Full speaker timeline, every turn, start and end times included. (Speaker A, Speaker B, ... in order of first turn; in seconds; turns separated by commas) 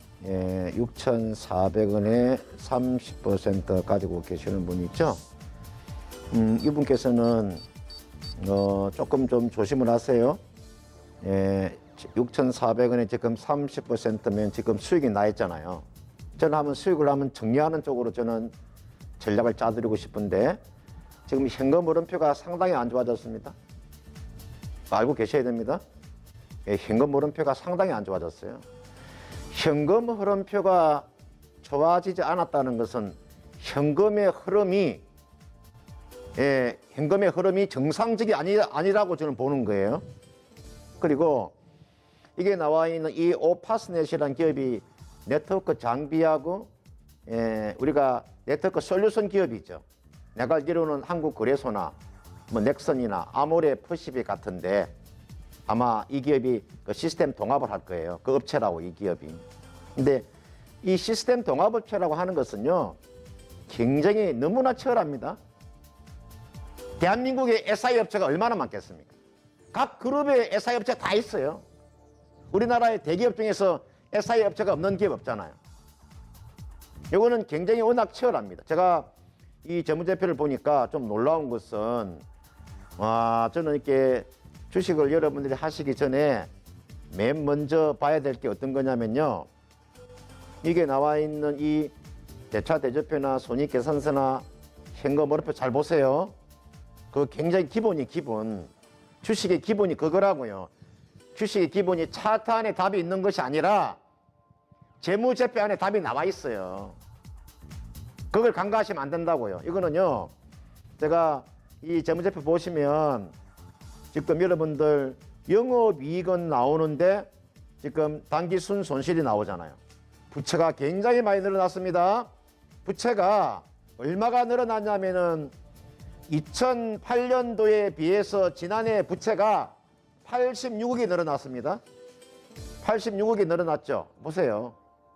Speaker A: 0.2-5.2, Speaker A: 6.3-7.6, Speaker A: 8.4-10.4, Speaker A: 11.2-15.8, Speaker A: 16.4-18.5, Speaker A: 19.2-20.6, Speaker A: 21.3-23.5, Speaker A: 24.9-25.8, Speaker A: 26.6-28.6, Speaker A: 29.5-31.1, Speaker A: 31.6-35.0, Speaker A: 36.4-40.0, Speaker A: 41.0-41.5, Speaker A: 42.4-46.7, Speaker A: 47.3-49.8, Speaker A: 50.3-51.9, Speaker A: 52.5-54.9, Speaker A: 55.7-59.4, Speaker A: 60.0-60.2, Speaker A: 60.8-63.0, Speaker A: 63.7-65.4, Speaker A: 67.0-69.1, Speaker A: 69.7-71.6, Speaker A: 72.5-75.6, Speaker A: 77.1-79.1, Speaker A: 79.6-82.2, Speaker A: 83.0-86.5, Speaker A: 87.1-89.5, Speaker A: 90.6-91.9, Speaker A: 92.5-96.3, Speaker A: 97.1-98.7, Speaker A: 99.2-100.7, Speaker A: 101.3-104.0, Speaker A: 105.0-107.0, Speaker A: 108.3-110.3, Speaker A: 111.0-113.3, Speaker A: 114.1-117.3, Speaker A: 117.8-119.8, Speaker A: 120.3-122.3, Speaker A: 122.8-125.5, Speaker A: 126.3-129.7, Speaker A: 130.2-131.8, Speaker A: 132.8-134.8